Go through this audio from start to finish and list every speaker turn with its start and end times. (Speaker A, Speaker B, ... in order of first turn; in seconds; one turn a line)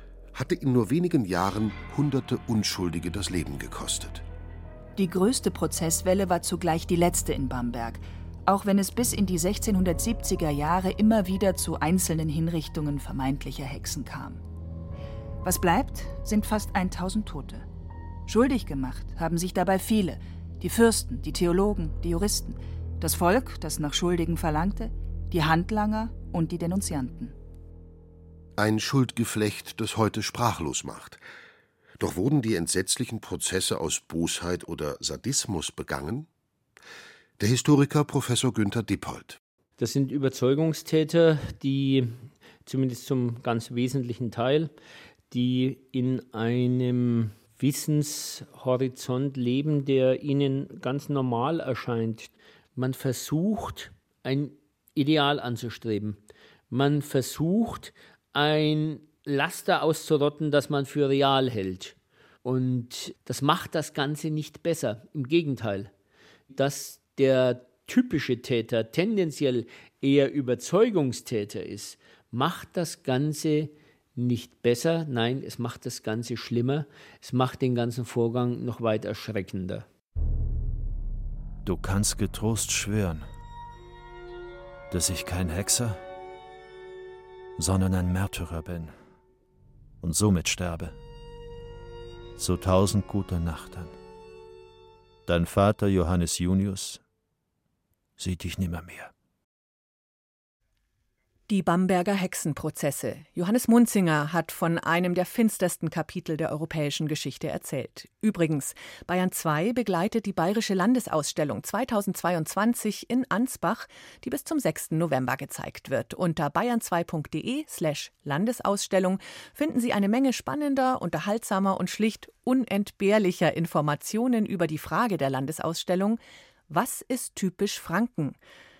Speaker A: 0.3-4.2
Speaker B: 5.0-14.4
Speaker B: 15.4-17.6
Speaker B: 18.3-27.4
Speaker A: 28.6-31.2
Speaker A: 32.0-36.3
Speaker A: 37.4-39.4
Speaker C: 39.8-42.1
Speaker C: 42.6-44.7
Speaker C: 45.3-56.2
Speaker C: 56.7-65.9
Speaker C: 66.5-79.9
Speaker D: 81.6-83.3
Speaker D: 84.9-86.0
Speaker D: 87.6-88.9
Speaker D: 90.0-91.0
Speaker D: 92.4-93.9
Speaker D: 95.2-97.0
Speaker D: 98.2-99.1
Speaker E: 101.5-128.4